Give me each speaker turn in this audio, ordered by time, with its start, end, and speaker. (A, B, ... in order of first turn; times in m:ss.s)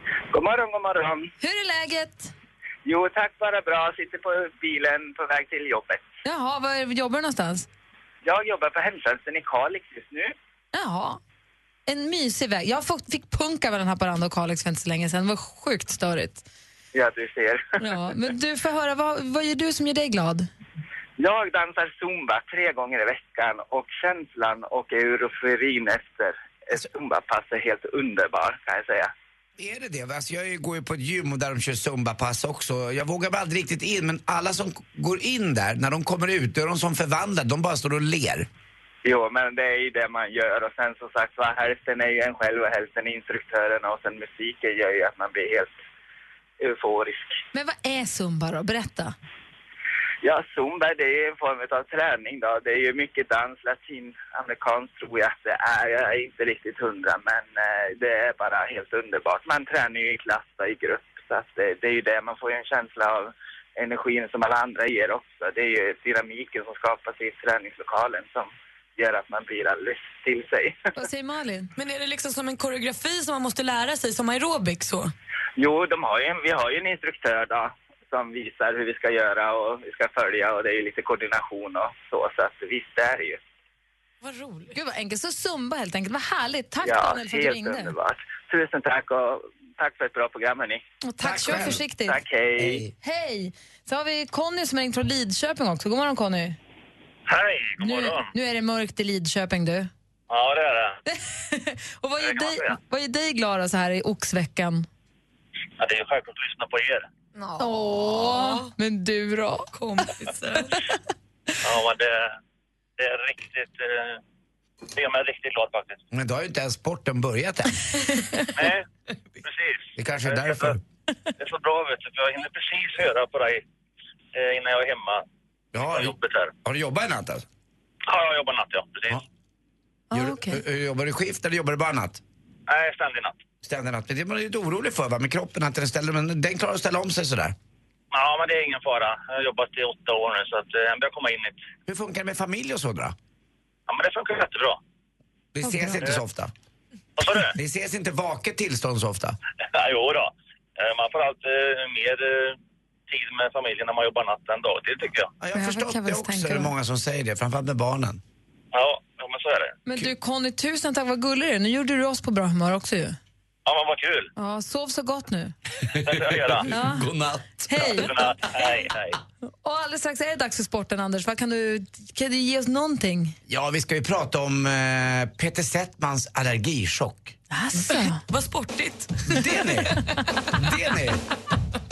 0:00.3-0:01.3 A
0:01.4-0:02.3 B
0:02.8-0:06.0 A
0:06.2-0:07.7 B
0:08.2-0:10.3 A
0:10.7-0:11.2 B
0:11.9-0:16.4 B
0:16.9-0:17.8 A
0:17.8-0:20.5 B
0:21.2-0:29.1 A
0:29.6-0:38.5 C
0:39.0-0:45.8 A
0:46.6-0:47.4 A
0:47.5-0:49.1 B
0:50.2-1:10.9 A
1:11.0-1:11.7 B
1:11.8-1:15.1 D
1:15.6-1:23.4 A
1:24.2-1:24.8 D
1:24.7-1:27.9 B
1:26.8-1:30.8 A
1:31.0-1:32.2 B
1:31.2-1:31.8 C
1:31.5-1:32.8 A
1:32.6-1:32.9 C
1:33.0-1:36.6 B
1:37.3-1:38.3 E
1:37.8-1:39.9 B
1:40.3-1:41.0 E
1:41.0-1:44.9 B
1:42.2-1:42.8 E
1:45.8-1:47.1 E
1:47.4-1:48.7 D
1:47.6-1:49.7 B
1:49.7-1:50.8 D
1:51.6-1:52.3 E
1:53.0-1:54.2 E
1:54.9-1:56.0 E
1:56.1-1:57.8 C
1:58.5-1:58.8 E
1:59.4-2:00.7 E
2:00.0-2:00.8 C
2:01.4-2:03.6 E
2:04.3-2:05.2 E
2:05.7-2:07.4 C
2:05.8-2:06.5 E
2:08.1-2:09.2 E
2:10.1-2:10.6 B
2:10.1-2:12.2 C
2:12.7-2:13.4 E
2:13.6-2:17.5 C
2:18.1-2:21.6 E
2:21.9-2:23.1 C
2:23.9-2:24.8 E
2:25.5-2:26.5 C
2:25.6-2:26.0 B
2:27.2-2:27.5 E
2:27.4-2:29.4 C
2:29.7-2:32.6 E
2:33.1-2:35.3 E
2:35.4-2:38.2 C
2:35.5-2:36.7 B
2:38.7-2:39.8 E
2:39.8-2:43.2 B
2:43.6-2:44.3 E
2:44.4-2:45.5 B
2:45.9-2:48.6 C
2:46.0-2:46.7 E
2:46.7-2:48.1 B
2:47.9-2:49.2 E
2:49.6-2:53.4 B
2:53.5-2:57.4 C
2:57.5-2:58.2 B
2:57.8-3:00.3 D
2:59.2-3:01.2 C